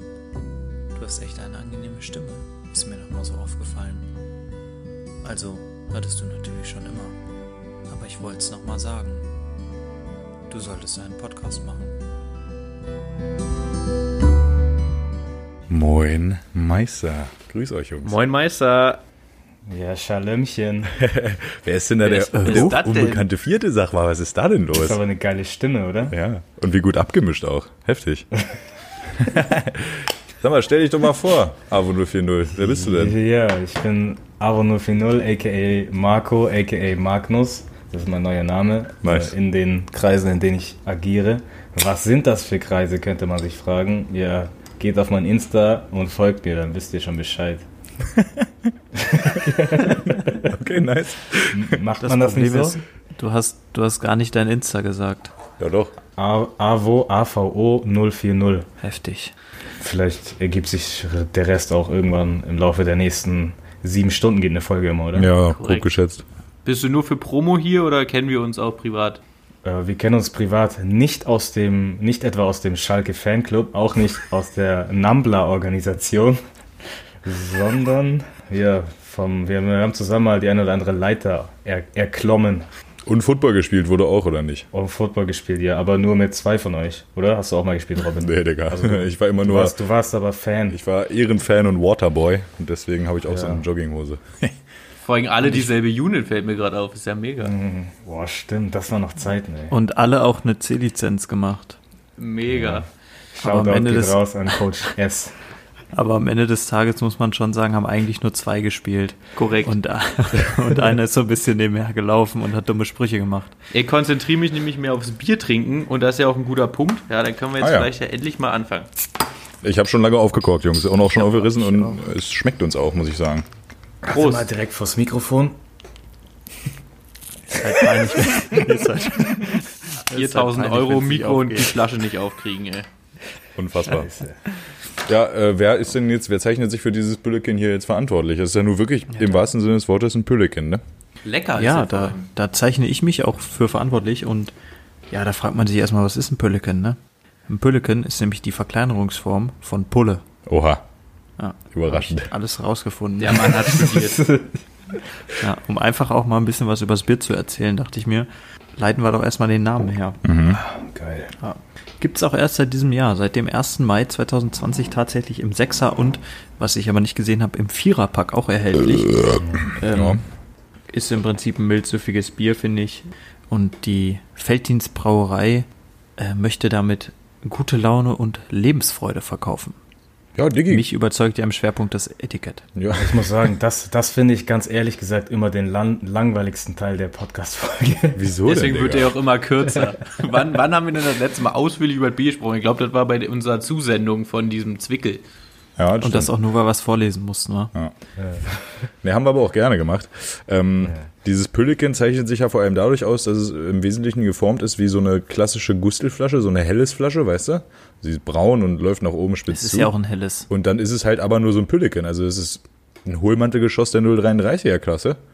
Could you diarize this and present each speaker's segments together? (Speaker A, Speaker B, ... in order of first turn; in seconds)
Speaker A: 0.9-4.1, 5.2-7.2, 7.9-9.3, 10.5-11.9, 22.3-22.8, 52.0-55.3, 58.8-59.3, 99.7-101.8, 103.4-104.2, 105.9-113.5, 121.2-122.0, 127.5-131.8, 141.6-144.5, 145.1-150.2, 151.4-153.6, 155.4-160.2, 161.4-170.2, 170.9-179.8, 180.7-182.6, 196.0-197.7, 209.5-210.5
Speaker B: 15.7-18.2, 20.9-25.0, 26.1-28.3, 29.2-33.2, 39.0-39.3, 48.0-48.5, 50.4-51.8, 55.6-55.9, 65.1-66.2, 83.0-84.7, 88.2-89.8, 90.7-94.6, 117.6-117.9, 119.6-123.5, 133.6-134.1, 135.1-140.8, 150.4-150.8, 151.7-152.3, 160.2-160.6, 169.9-170.2, 180.3-180.9, 182.7-183.5, 188.1-189.2, 195.8-196.3, 199.0-209.9, 210.5-215.2
Speaker C: 18.0-19.0, 22.0-23.2, 65.4-65.9, 66.6-69.2, 95.0-97.5, 102.2-102.8, 109.3-109.7, 113.7-118.9, 124.1-124.5, 130.1-132.9, 141.2-142.2, 153.2-154.3, 188.5-195.2
Speaker D: 19.7-20.9, 24.8-26.1, 32.6-47.6, 48.9-50.5, 51.5-52.8, 56.2-58.7, 59.8-65.3, 69.6-76.4, 77.2-82.7, 84.7-90.8, 93.2-93.6, 97.4-99.7, 102.5-105.3, 124.0-125.5, 133.8-134.4, 153.5-154.6, 160.5-161.3, 169.4-169.7, 183.0-188.2, 198.2-198.5